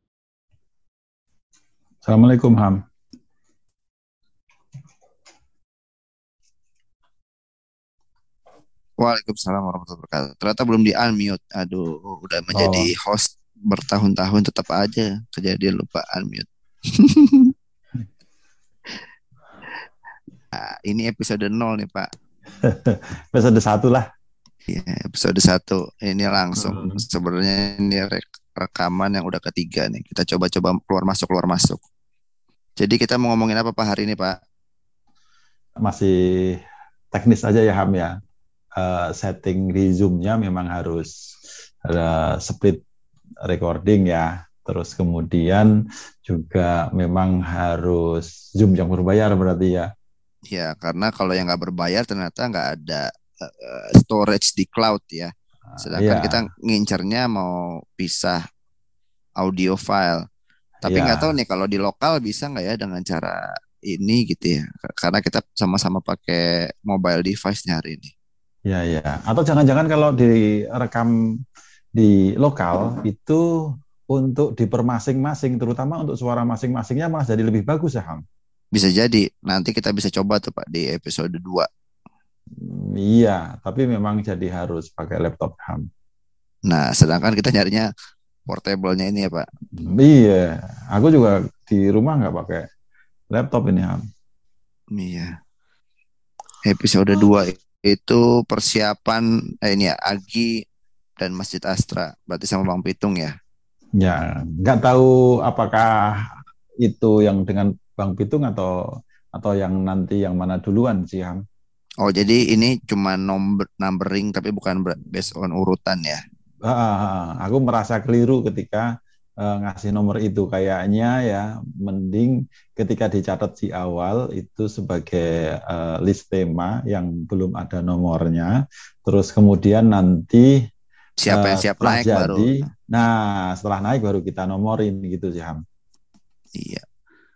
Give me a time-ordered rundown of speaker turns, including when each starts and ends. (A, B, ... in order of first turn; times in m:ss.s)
0:02.0-0:02.8 A
0:09.0-0:17.5 B
0:12.5-0:12.9 A
0:20.5-0:22.1 B
0:22.6-0:24.0 A
0:24.7-0:31.8 B
0:26.6-0:27.0 A
0:32.8-0:34.4 B
0:35.8-0:36.6 A
0:37.1-0:38.1 A
0:38.8-0:41.1 A
0:41.9-0:42.8 A
0:43.5-0:45.7 A
0:46.3-0:49.9 A
0:50.5-0:58.4 B
0:55.8-0:56.4 A
0:59.4-1:00.2 B
1:00.8-1:03.4 B
1:00.9-1:01.3 A
1:03.9-1:08.1 B
1:08.7-1:11.1 A
1:12.0-1:13.4 A
1:14.1-1:18.2 A
1:18.7-1:21.7 B
1:22.6-1:25.8 A
1:26.7-1:27.9 B
1:28.5-1:29.5 B
1:29.8-1:32.6 A
1:33.3-1:34.0 A
1:35.0-1:35.3 B
1:36.6-1:40.5 B
1:41.2-1:43.3 B
1:44.0-1:48.7 A
1:49.3-1:51.4 A
1:52.0-1:56.2 B
1:56.7-1:58.9 A
1:59.4-2:08.5 A
2:09.0-2:10.5 A
2:11.2-2:12.7 B
2:11.3-2:15.6 A